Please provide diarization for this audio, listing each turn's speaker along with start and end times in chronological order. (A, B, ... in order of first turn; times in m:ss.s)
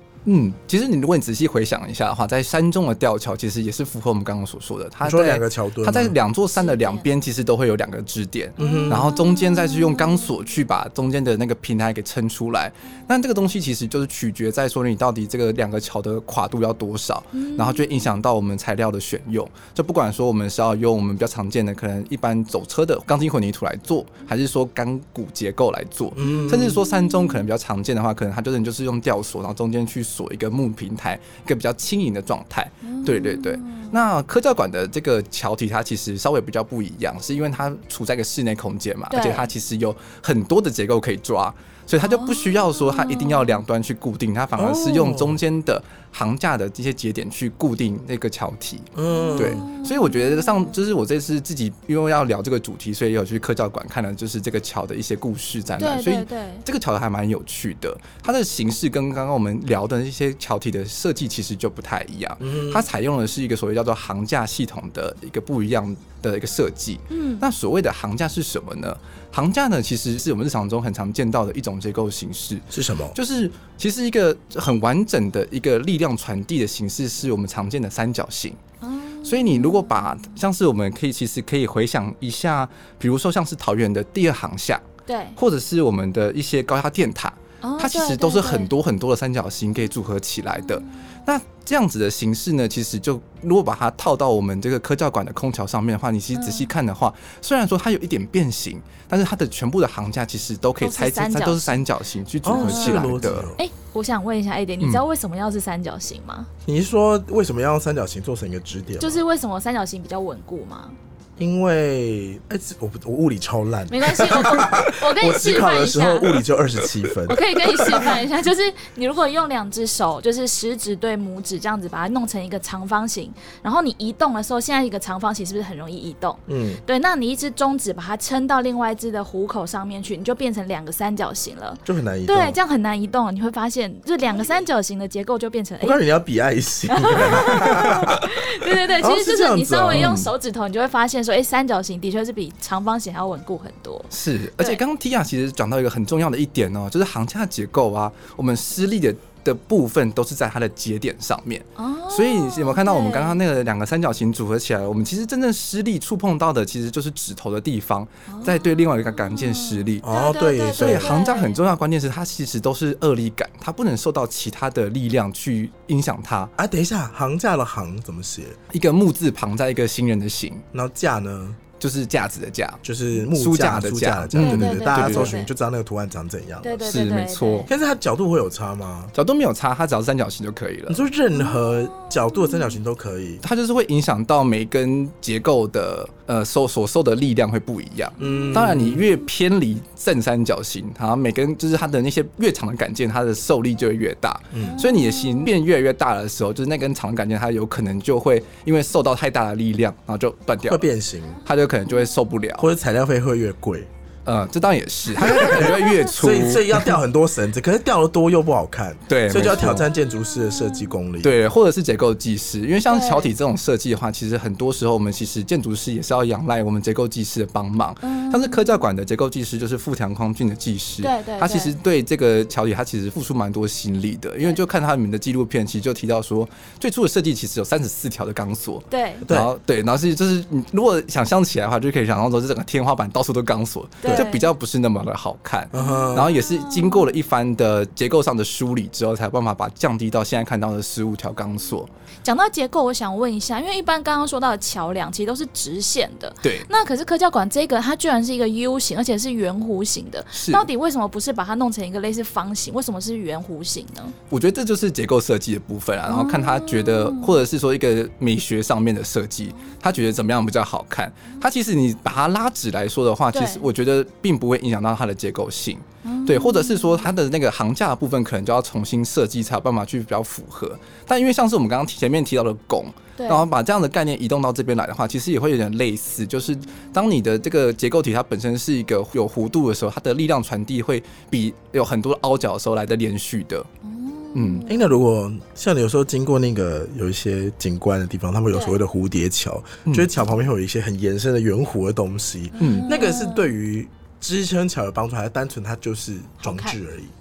0:00.3-1:18.6 A
0:05.0-0:06.2 B
0:06.6-0:07.1 C
0:08.6-0:09.1 B
0:08.6-0:10.2 C
0:17.4-0:18.1 C
0:26.2-0:26.8 B
0:32.8-0:33.9 C
0:39.1-0:39.5 C
0:42.0-0:43.6 C
0:44.6-0:45.4 B
0:49.0-0:49.7 B
0:49.1-0:50.8 C
0:55.8-0:56.6 C
1:02.4-1:02.8 B
1:07.1-1:07.4 C
1:12.7-1:13.2 B
1:18.8-1:19.9 C
1:19.2-1:24.8 A
1:25.1-1:25.4 C
1:25.4-1:43.5 A
1:27.6-1:28.7 C
1:36.3-1:36.7 C
1:40.8-1:41.8 C
1:42.4-1:43.6 B
1:42.5-1:46.5 C
1:46.7-1:49.2 B
1:49.0-1:51.0 C
1:51.4-1:58.1 B
1:53.9-1:56.4 C
1:57.3-2:16.0 C
2:06.5-2:06.8 B
2:11.9-2:12.6 B
2:15.8-2:20.1 B
2:16.9-2:24.8 C
2:19.9-2:20.3 A
2:24.1-2:40.0 A
2:31.8-2:33.4 C
2:38.3-2:41.6 C
2:40.0-2:41.2 B
2:40.8-2:46.5 A
2:46.6-2:48.6 B
2:48.7-2:50.6 A
2:50.7-2:51.6 B
2:51.8-2:55.4 A
2:52.8-2:57.0 B
2:54.4-2:55.5 C
2:56.6-2:57.7 C
2:56.9-2:57.7 A
2:57.7-2:59.1 B
2:59.1-3:01.0 A
3:00.9-3:03.4 B
3:01.4-3:02.7 C
3:03.4-3:20.9 A
3:08.2-3:09.1 B
3:08.2-3:08.5 C
3:14.5-3:14.8 B
3:14.6-3:15.5 C
3:20.7-3:21.4 B
3:21.4-3:22.7 A
3:22.6-3:23.9 B
3:24.2-3:26.9 A
3:25.3-3:31.4 B
3:29.1-3:29.9 A
3:30.5-3:30.9 C
3:31.2-4:01.9 A
3:32.9-3:33.3 C
3:38.0-3:38.8 C
3:41.0-3:41.8 C
3:48.9-3:49.2 C
3:54.0-3:54.5 C
3:55.7-3:56.3 B
3:55.8-3:57.1 C
4:02.2-4:14.2 C
4:10.3-4:10.7 A
4:14.3-4:43.7 A
4:16.1-4:17.4 C
4:23.3-4:23.7 C
4:26.0-4:27.1 C
4:33.2-4:33.5 C
4:43.8-4:44.8 C
4:44.4-4:44.6 A
4:44.7-4:57.1 B
4:52.6-4:53.5 C
4:52.6-4:53.0 A
4:56.4-4:56.8 C